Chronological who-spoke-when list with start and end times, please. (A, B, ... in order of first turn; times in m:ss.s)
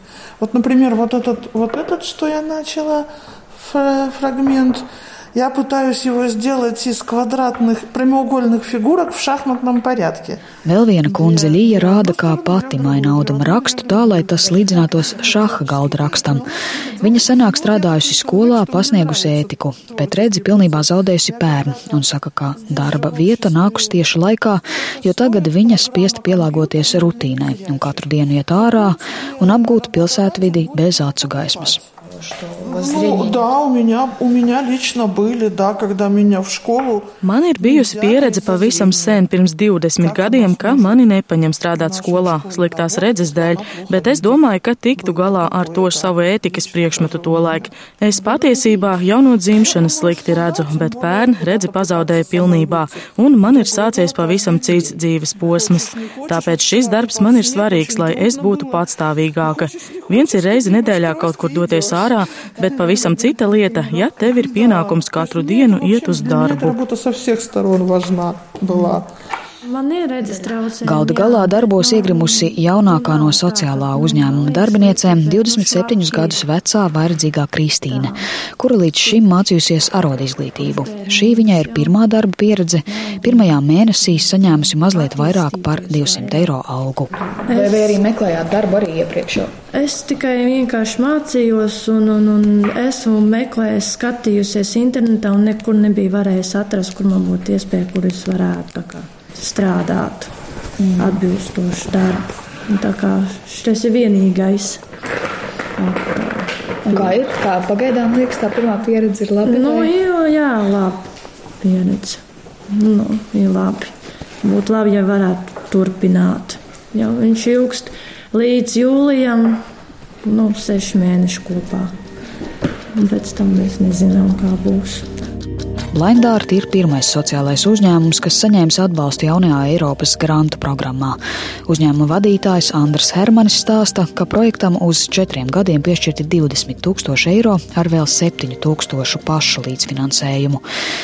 0:00.4-0:10.4 A
0:10.6-0:16.4 B
0:11.1-0:22.0 A
0:17.0-0:31.8 B
0:22.6-0:24.0 A
0:24.9-0:28.0 A
0:28.6-0:31.7 A
0:32.1-0:33.4 C
0:32.6-0:37.1 A
0:37.2-1:06.8 D
0:37.6-0:41.1 A
0:41.7-1:09.0 A
1:08.7-1:09.0 E
1:09.6-1:16.4 E
1:10.8-1:27.1 B
1:17.9-1:18.2 E
1:20.6-1:22.0 E
1:22.9-1:23.5 E
1:24.0-1:26.5 E
1:27.4-1:28.0 E
1:27.5-1:29.5 C
1:29.7-1:40.3 E
1:40.8-1:41.2 C
1:41.0-1:44.8 E
1:45.8-1:47.1 E
1:46.9-1:49.9 C
1:49.4-1:51.0 E
1:51.6-1:59.6 E
2:00.2-2:01.9 E
2:03.0-2:05.0 E
2:05.9-2:20.6 B